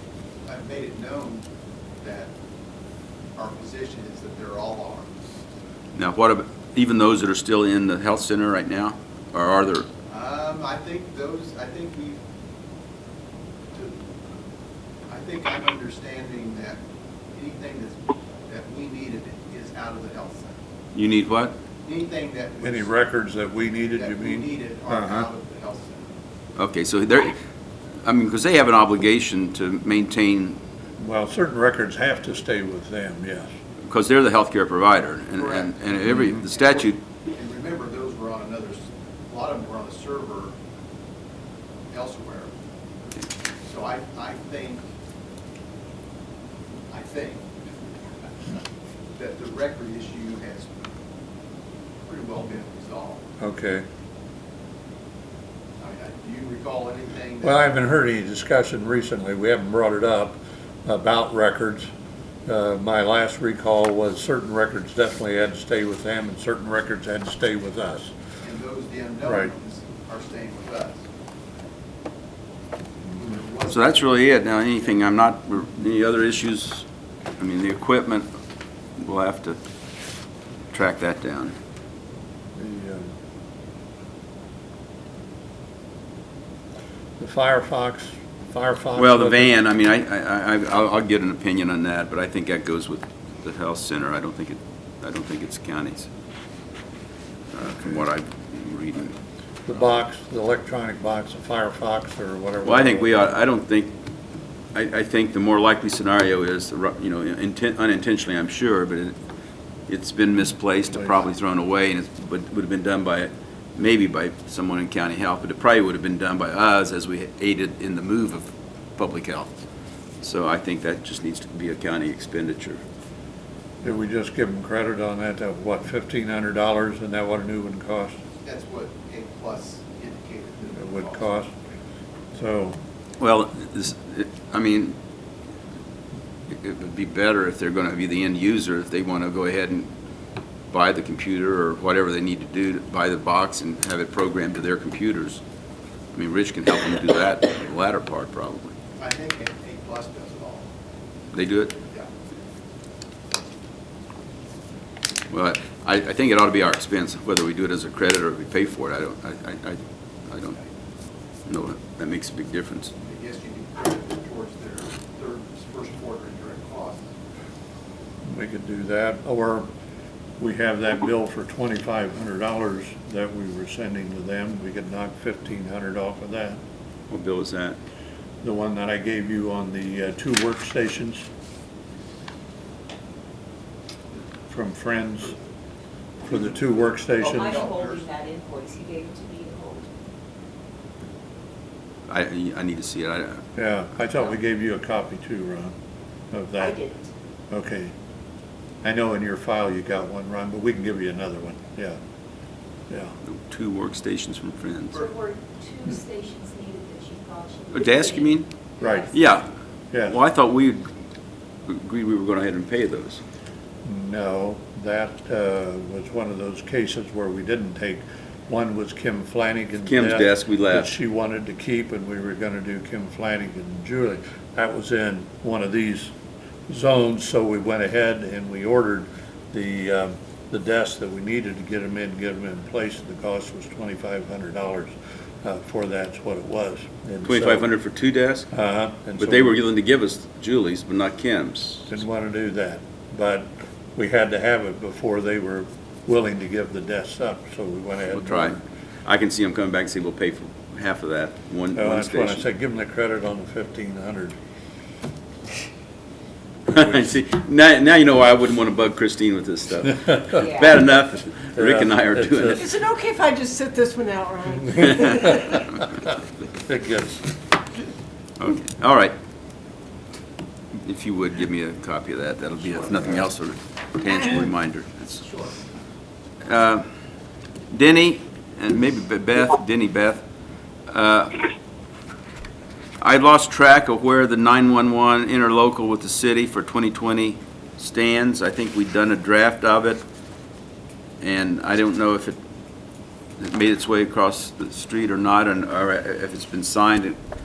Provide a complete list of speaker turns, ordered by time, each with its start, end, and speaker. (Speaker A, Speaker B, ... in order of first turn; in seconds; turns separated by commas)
Speaker A: 0.4-1.4, Speaker A: 2.0-2.3, Speaker A: 3.3-5.3, Speaker B: 5.9-9.9, Speaker A: 10.1-12.2, Speaker A: 15.1-16.8, Speaker A: 17.3-20.6, Speaker B: 20.9-21.5, Speaker A: 21.8-22.9, Speaker C: 22.6-25.3, Speaker A: 23.9-26.2, Speaker B: 26.6-27.3, Speaker B: 28.0-30.6, Speaker C: 31.0-33.5, Speaker B: 33.8-37.0, Speaker A: 35.3-35.8, Speaker A: 36.5-40.5, Speaker A: 41.9-42.5, Speaker A: 43.6-44.9, Speaker A: 46.9-47.6, Speaker A: 49.1-50.7, Speaker A: 52.0-53.2, Speaker C: 53.4-53.8, Speaker A: 55.8-57.6, Speaker C: 57.4-61.9, Speaker C: 62.5-68.1, Speaker A: 68.4-71.0, Speaker C: 69.2-69.5, Speaker A: 73.1-74.0, Speaker B: 73.7-76.8, Speaker B: 77.4-78.3, Speaker B: 79.0-79.6, Speaker B: 80.7-81.5, Speaker C: 82.6-83.1, Speaker C: 87.2-89.5, Speaker B: 89.0-96.1, Speaker B: 97.5-99.1, Speaker C: 99.7-103.3, Speaker B: 102.6-103.9, Speaker B: 104.7-109.2, Speaker B: 109.9-119.5, Speaker B: 120.2-122.8, Speaker C: 123.8-128.2, Speaker A: 128.4-131.2, Speaker C: 130.8-131.5, Speaker C: 132.3-132.8, Speaker B: 133.2-134.9, Speaker B: 136.5-139.9, Speaker B: 140.7-145.4, Speaker B: 146.1-148.7, Speaker A: 148.9-150.7, Speaker B: 151.3-151.7, Speaker A: 151.8-152.1, Speaker B: 155.3-160.6, Speaker B: 161.5-162.9, Speaker A: 163.0-167.0, Speaker C: 168.2-169.7, Speaker C: 170.4-176.6, Speaker B: 177.1-177.8, Speaker C: 178.4-181.3, Speaker C: 184.5-185.3, Speaker A: 186.2-188.1, Speaker C: 186.2-187.7, Speaker D: 187.2-189.8, Speaker B: 192.1-193.4, Speaker C: 193.6-195.7, Speaker C: 196.3-196.8, Speaker D: 196.6-197.1, Speaker C: 197.5-197.9, Speaker C: 198.8-202.0, Speaker C: 202.9-203.2, Speaker B: 203.2-205.0, Speaker D: 204.9-209.1, Speaker B: 207.7-208.5, Speaker C: 208.8-209.1, Speaker B: 209.1-209.5, Speaker B: 210.1-210.9, Speaker B: 211.7-213.2, Speaker C: 213.8-226.1, Speaker B: 219.8-220.9, Speaker C: 226.7-237.7, Speaker B: 237.2-238.5, Speaker C: 238.5-239.6, Speaker B: 239.2-241.9, Speaker C: 241.9-248.6, Speaker B: 248.1-252.4, Speaker C: 251.7-254.3, Speaker B: 256.7-262.7, Speaker D: 260.3-260.7, Speaker C: 261.6-262.6, Speaker E: 262.5-265.5, Speaker C: 265.1-266.0, Speaker C: 266.6-267.3, Speaker B: 268.4-269.1, Speaker B: 270.8-275.2, Speaker E: 274.1-274.4, Speaker D: 275.2-275.5, Speaker B: 276.4-276.8, Speaker B: 277.7-280.2, Speaker B: 280.9-281.4, Speaker B: 283.0-290.0, Speaker B: 291.2-292.4, Speaker B: 293.4-297.2